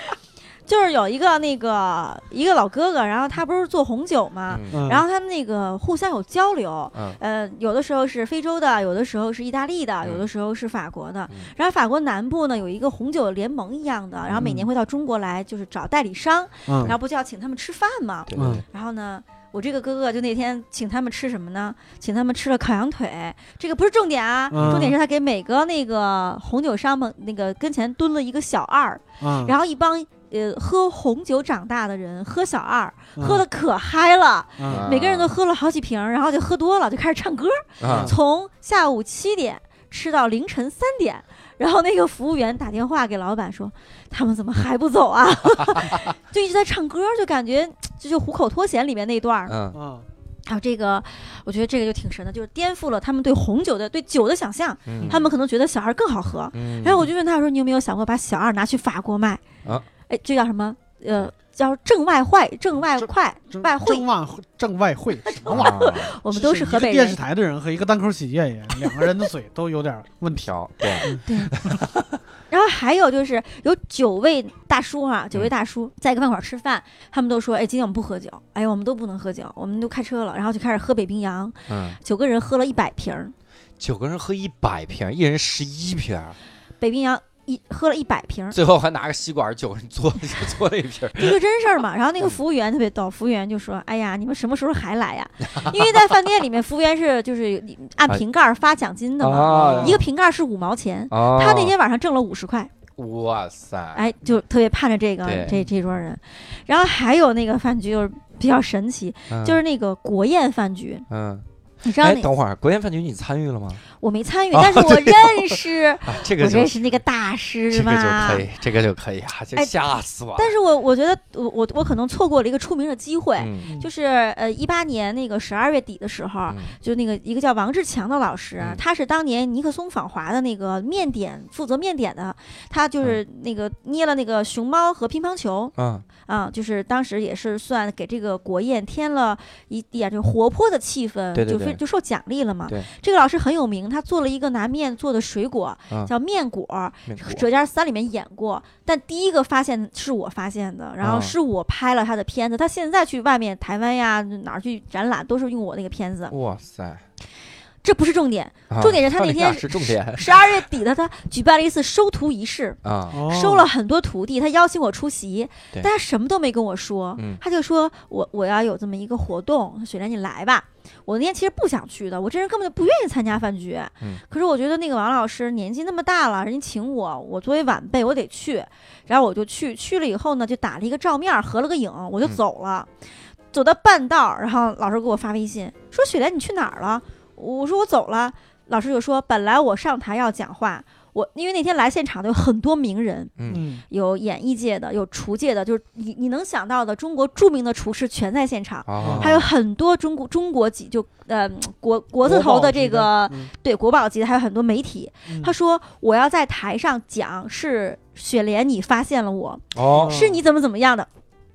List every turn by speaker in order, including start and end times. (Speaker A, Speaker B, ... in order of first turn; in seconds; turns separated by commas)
Speaker A: 0.7-49.5, Speaker B: 4.5-4.9, Speaker C: 4.7-5.0, Speaker B: 6.9-7.2, Speaker C: 14.4-14.7, Speaker C: 16.7-16.9, Speaker B: 18.3-18.6, Speaker C: 18.4-18.6, Speaker C: 24.5-24.9, Speaker B: 24.6-24.8, Speaker C: 29.2-29.5, Speaker C: 33.2-33.4, Speaker C: 34.6-34.9, Speaker B: 34.7-35.3, Speaker B: 37.8-38.1, Speaker C: 37.8-38.1, Speaker B: 49.5-49.8, Speaker C: 49.7-50.1, Speaker A: 50.5-59.4, Speaker B: 54.9-55.2, Speaker B: 56.5-57.1, Speaker A: 60.1-64.0, Speaker C: 63.0-70.5, Speaker A: 65.2-67.2, Speaker B: 65.5-66.1, Speaker B: 70.4-72.2, Speaker A: 71.0-71.5, Speaker C: 71.0-71.7, Speaker A: 72.5-83.3, Speaker B: 81.7-82.0, Speaker B: 83.8-86.4, Speaker A: 86.8-88.6, Speaker B: 88.5-91.4, Speaker A: 91.2-102.7, Speaker B: 95.5-95.9, Speaker B: 99.2-100.0, Speaker C: 99.5-100.0, Speaker B: 101.1-101.7, Speaker B: 103.0-104.0, Speaker A: 103.9-111.0, Speaker B: 105.2-105.5, Speaker B: 109.3-109.6, Speaker B: 111.1-113.8, Speaker A: 111.8-112.3, Speaker A: 114.0-118.4, Speaker B: 114.5-116.9, Speaker B: 117.7-120.5, Speaker A: 120.3-156.3, Speaker B: 123.4-123.7, Speaker B: 126.5-126.8, Speaker B: 135.8-136.1, Speaker B: 141.3-141.8, Speaker B: 147.1-147.4, Speaker B: 151.0-151.3, Speaker B: 156.3-157.0, Speaker A: 157.8-182.9, Speaker B: 158.7-160.6, Speaker B: 162.8-163.2, Speaker C: 163.1-163.7, Speaker A: 183.5-211.1, Speaker B: 193.4-193.6, Speaker C: 193.5-193.8, Speaker B: 198.9-199.5, Speaker C: 199.0-199.3, Speaker C: 202.2-203.5, Speaker C: 205.3-205.5, Speaker B: 209.7-210.2, Speaker C: 209.9-210.4